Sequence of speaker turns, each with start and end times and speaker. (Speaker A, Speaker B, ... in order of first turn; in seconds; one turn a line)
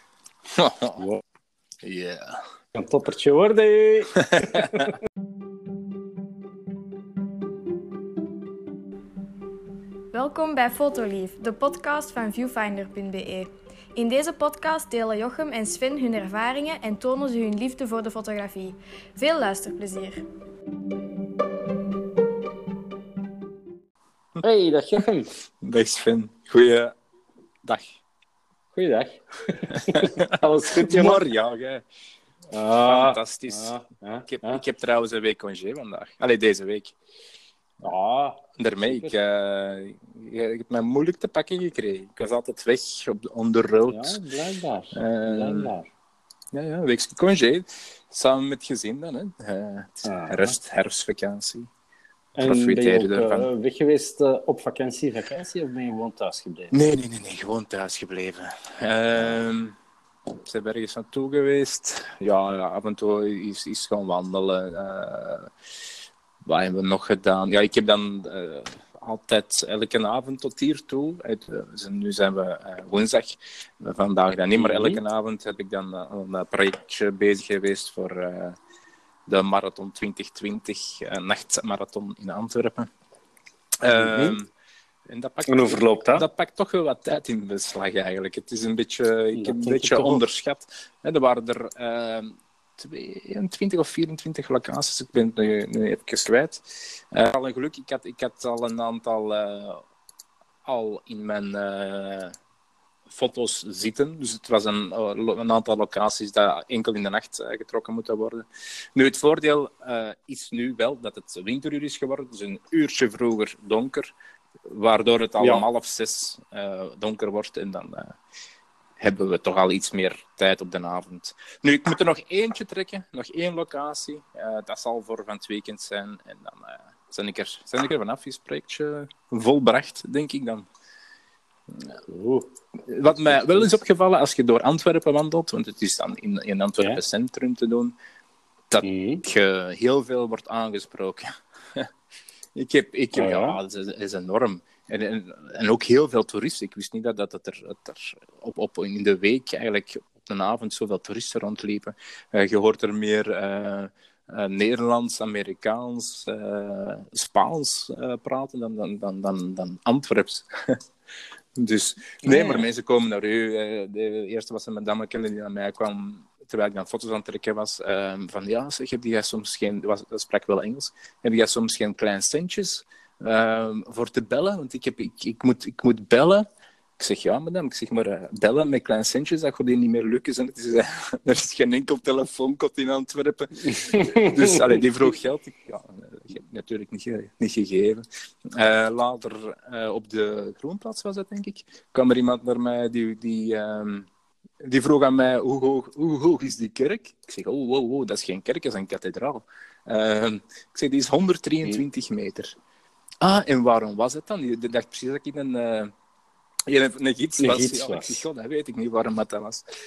Speaker A: 0.5-1.0
Speaker A: 1.8-2.4
Speaker B: 2.7-5.0
Speaker A: 4.2-4.8
Speaker C: 10.1-20.2
Speaker B: 24.4-25.3
Speaker A: 25.6-26.9
Speaker A: 27.6-28.0
Speaker B: 28.7-31.2
Speaker A: 29.7-31.8
Speaker B: 32.5-34.6
Speaker A: 32.8-33.7
Speaker A: 34.2-37.0
Speaker B: 37.8-39.1
Speaker A: 38.6-44.2
Speaker B: 43.9-45.9
Speaker A: 44.9-45.7
Speaker A: 46.5-51.7
Speaker B: 50.0-50.5
Speaker B: 52.4-56.7
Speaker A: 52.4-53.5
Speaker A: 56.7-59.8
Speaker A: 60.4-65.5
Speaker A: 66.5-78.5
Speaker B: 74.5-75.0
Speaker A: 79.3-82.9
Speaker A: 83.8-84.5
Speaker B: 83.9-84.4
Speaker A: 85.1-99.8
Speaker B: 85.5-86.3
Speaker B: 89.3-90.2
Speaker A: 100.6-102.3
Speaker A: 103.1-114.1
Speaker A: 114.7-118.2
Speaker B: 115.4-115.6
Speaker A: 119.0-130.7
Speaker B: 132.1-132.5
Speaker A: 132.9-137.9
Speaker B: 133.1-133.7
Speaker A: 138.7-141.9
Speaker B: 138.8-139.2
Speaker A: 142.5-160.8
Speaker B: 143.1-143.6
Speaker A: 161.6-176.4
Speaker B: 162.2-162.7
Speaker A: 177.0-194.1
Speaker B: 183.7-184.8
Speaker A: 194.6-202.6
Speaker A: 203.2-205.9
Speaker A: 206.7-209.6
Speaker B: 207.4-208.3